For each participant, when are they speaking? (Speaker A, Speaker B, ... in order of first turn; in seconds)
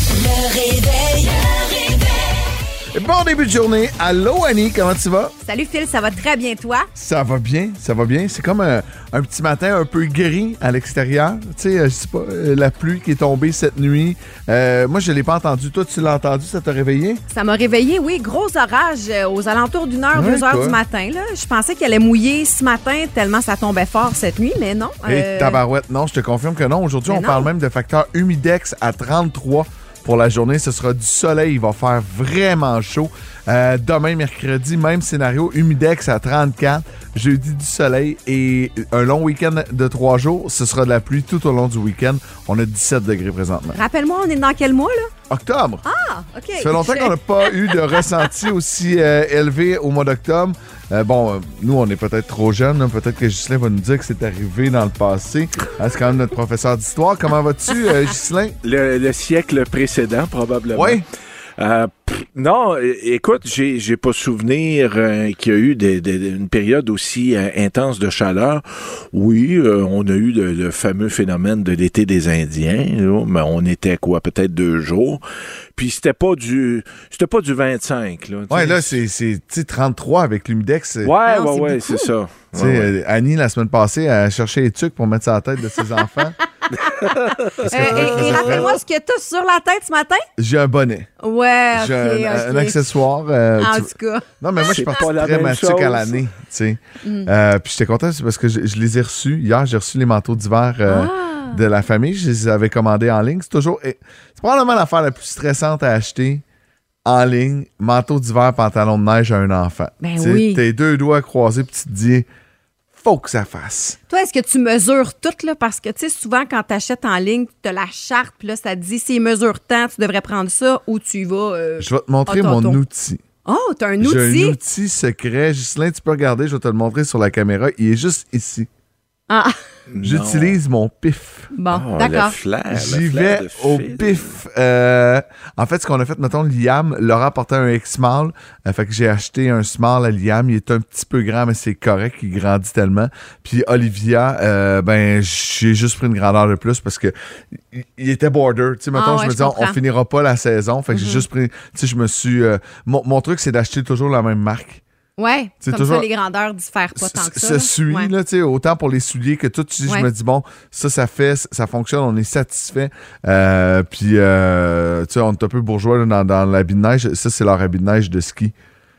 Speaker A: 2.9-5.3, 7.0-17.2, 20.1-20.8, 25.1-43.8, 45.3-45.8, 46.6-58.6, 60.7-61.0, 78.5-81.1, 82.5-86.3, 87.6-88.8, 90.4-91.1, 91.7-106.4, 107.0-112.3, 113.0-114.0, 121.8-123.2, 124.0-128.7, 130.0-131.5, 132.7-154.8, 155.6-156.1, 157.0-168.5
Speaker B: 5.4-6.9, 17.3-25.6, 27.1-27.5, 43.7-45.1, 45.9-47.2, 81.2-82.1, 87.6-90.3, 91.2-92.9, 93.6-94.7, 97.0-97.3, 100.9-101.6, 110.0-110.6, 114.1-122.8, 123.5-124.6, 129.3-129.6, 131.5-132.3, 148.9-149.8, 150.9-151.2, 155.2-158.1
Speaker C: 58.6-61.0, 61.6-75.2, 75.8-79.0, 81.0-82.9, 86.8-88.8, 94.7-96.2, 129.9-130.6, 131.7-134.3